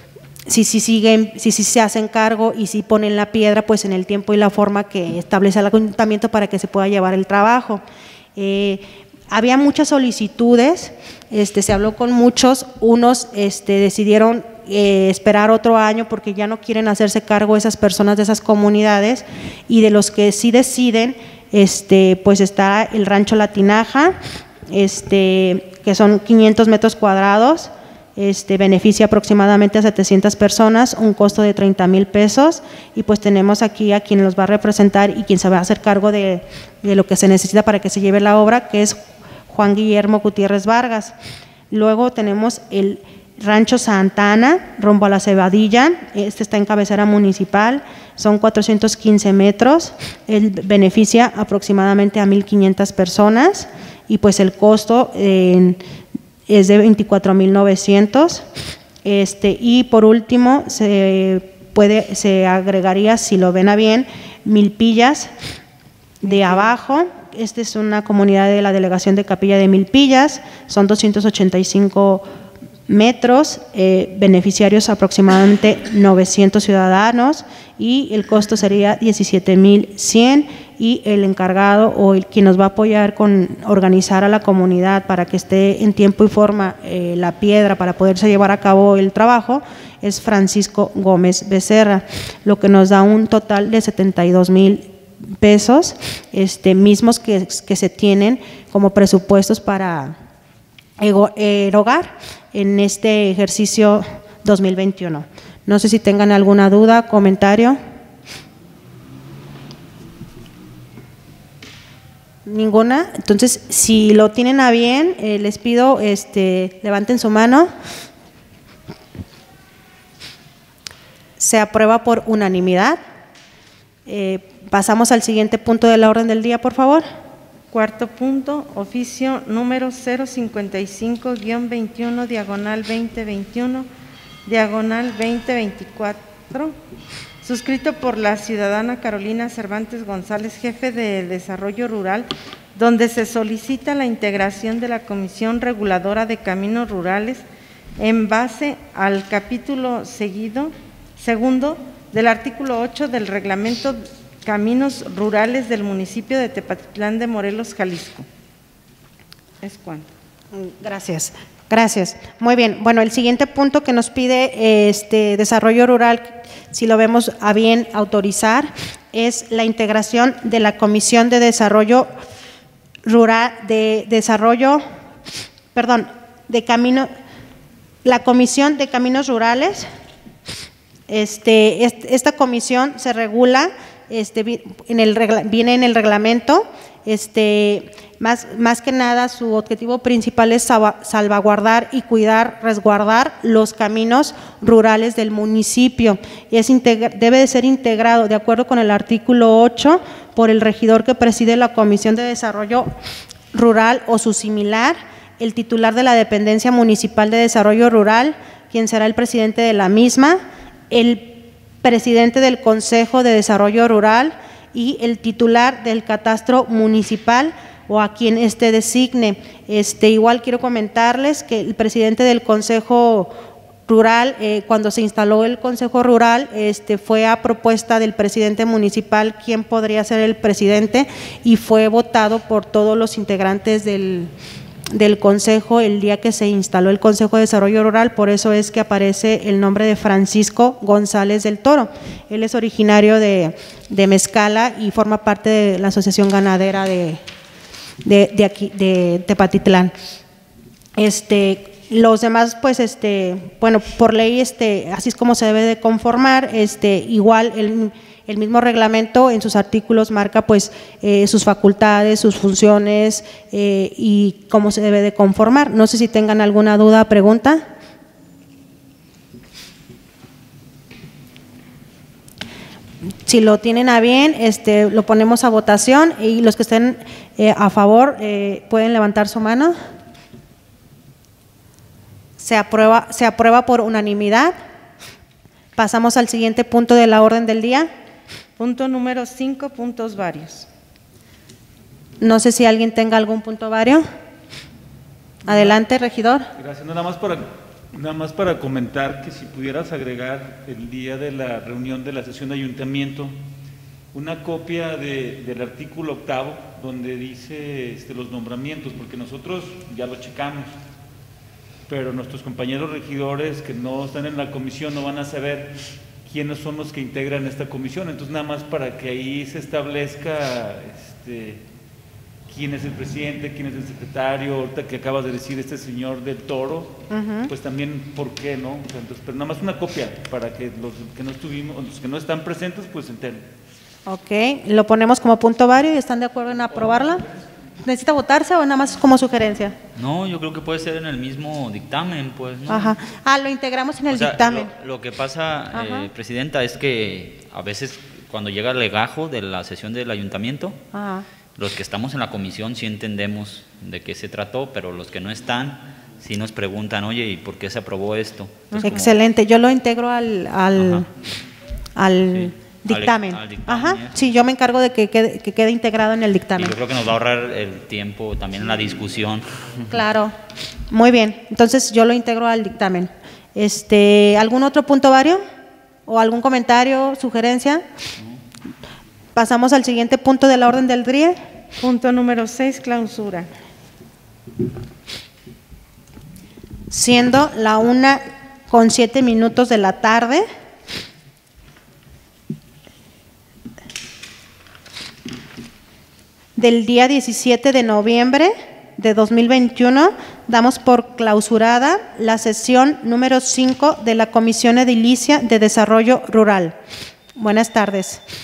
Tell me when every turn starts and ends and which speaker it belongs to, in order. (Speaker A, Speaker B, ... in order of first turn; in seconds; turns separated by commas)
Speaker A: 0.5-7.8, Speaker A: 8.3-24.2, Speaker A: 24.7-39.0, Speaker A: 39.5-41.1, Speaker A: 41.7-55.8, Speaker A: 56.5-58.4, Speaker A: 59.0-65.3, Speaker A: 66.2-72.2, Speaker A: 72.9-94.8, Speaker A: 95.4-100.1, Speaker A: 101.0-107.8, Speaker A: 112.5-117.7, Speaker A: 121.4-123.0, Speaker A: 124.0-127.0, Speaker B: 127.7-133.9, Speaker B: 134.4-136.8, Speaker B: 137.4-147.4, Speaker B: 148.0-158.2, Speaker B: 159.6-160.1, Speaker A: 160.6-172.1, Speaker A: 173.0-174.8, Speaker A: 175.7-177.1, Speaker A: 178.0-179.9, Speaker A: 181.1-202.9, Speaker A: 203.5-210.4, Speaker A: 210.9-223.3, Speaker A: 223.9-234.3, Speaker A: 234.9-247.2, Speaker A: 248.0-249.9, Speaker A: 251.0-267.6, Speaker A: 273.2-279.7, Speaker A: 282.4-284.5, Speaker A: 285.8-287.9, Speaker B: 288.6-290.7, Speaker A: 292.2-294.0, Speaker A: 295.4-296.5, Speaker C: 295.5-295.8, Speaker C: 296.6-303.3, Speaker C: 304.1-310.7, Speaker C: 311.9-321.6, Speaker C: 322.5-333.4, Speaker A: 327.1-327.5, Speaker A: 334.1-337.2, Speaker A: 337.8-339.8, Speaker D: 339.9-343.0, Speaker A: 342.7-344.7, Speaker D: 344.1-350.8, Speaker A: 345.7-346.1, Speaker A: 350.9-351.2, Speaker D: 351.5-359.2, Speaker A: 358.7-361.1, Speaker D: 360.7-361.0, Speaker A: 361.9-366.7, Speaker D: 362.3-364.2, Speaker D: 366.6-369.8, Speaker A: 369.9-370.3, Speaker A: 370.9-375.4, Speaker A: 376.1-377.8, Speaker A: 379.3-381.4, Speaker B: 381.8-383.5, Speaker A: 386.9-390.4, Speaker A: 396.6-406.8, Speaker A: 407.4-408.2